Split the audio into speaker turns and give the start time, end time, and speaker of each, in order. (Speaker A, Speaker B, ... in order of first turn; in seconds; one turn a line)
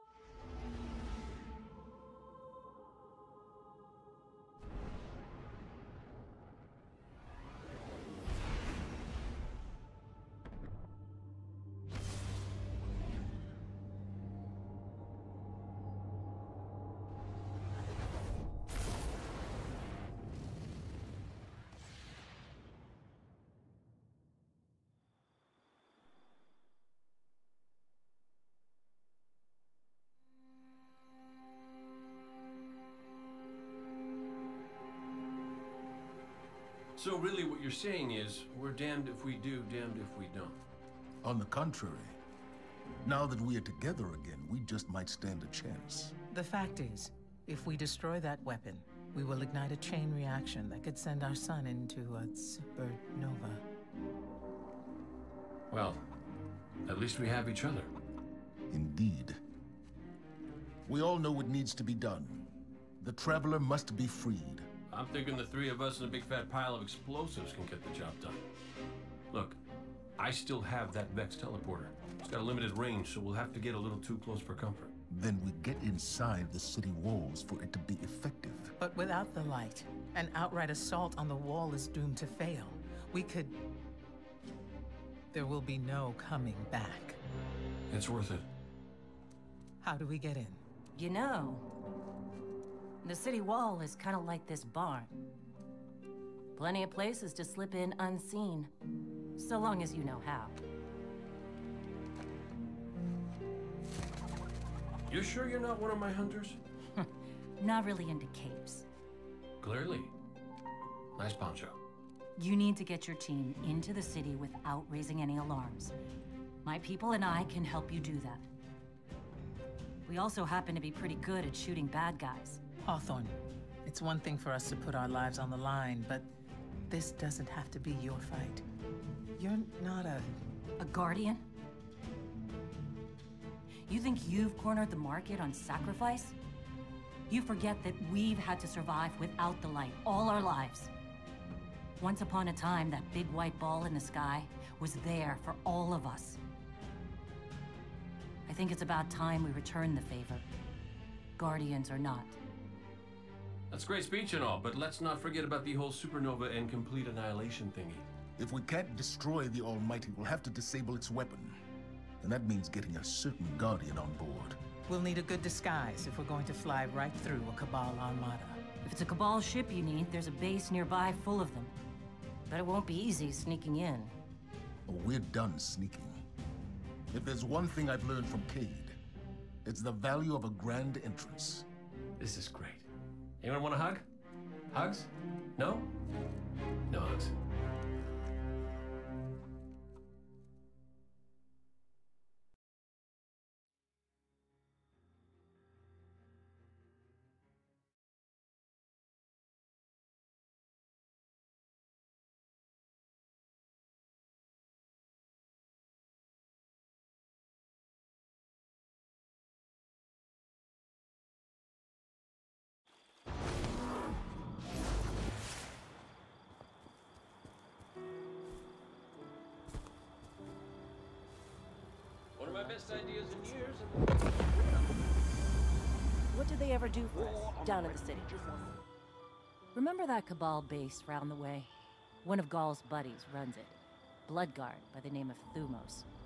Speaker A: 37.0-40.6
Speaker B: 41.2-42.2
Speaker B: 43.0-46.1
Speaker C: 46.3-53.6
Speaker A: 55.7-56.0
Speaker A: 56.9-57.9
Speaker B: 58.7-59.4
Speaker B: 60.9-64.7
Speaker A: 64.9-68.4
Speaker A: 69.3-69.6
Speaker A: 70.2-74.9
Speaker B: 75.1-78.8
Speaker C: 78.8-83.6
Speaker C: 85.3-87.2
Speaker A: 87.9-88.5
Speaker C: 89.8-90.6
Speaker D: 90.9-91.7
Speaker D: 93.0-95.1
Speaker D: 96.5-98.7
Speaker D: 99.4-100.6
Speaker A: 105.1-106.6
Speaker D: 107.0-108.9
Speaker A: 109.6-110.1
Speaker A: 111.2-111.8
Speaker D: 112.4-115.9
Speaker D: 116.6-118.5
Speaker D: 120.1-122.6
Speaker C: 122.8-126.3
Speaker C: 126.9-128.7
Speaker C: 129.4-130.4
Speaker D: 130.8-131.5
Speaker D: 133.9-136.4
Speaker D: 137.3-140.9
Speaker D: 142.0-146.4
Speaker D: 148.5-150.5
Speaker D: 151.4-152.4
Speaker A: 153.7-158.1
Speaker B: 158.4-161.6
Speaker B: 162.2-164.6
Speaker C: 164.9-168.6
Speaker D: 168.8-171.7
Speaker D: 172.5-174.1
Speaker B: 174.9-176.2
Speaker B: 177.1-179.0
Speaker B: 179.7-181.7
Speaker A: 182.2-182.9
Speaker A: 183.4-184.0
Speaker A: 184.7-185.9
Speaker A: 186.9-187.3
Speaker A: 222.4-224.8
Speaker D: 222.5-222.9
Speaker D: 226.3-228.4
Speaker D: 229.7-231.7
Speaker D: 232.2-236.1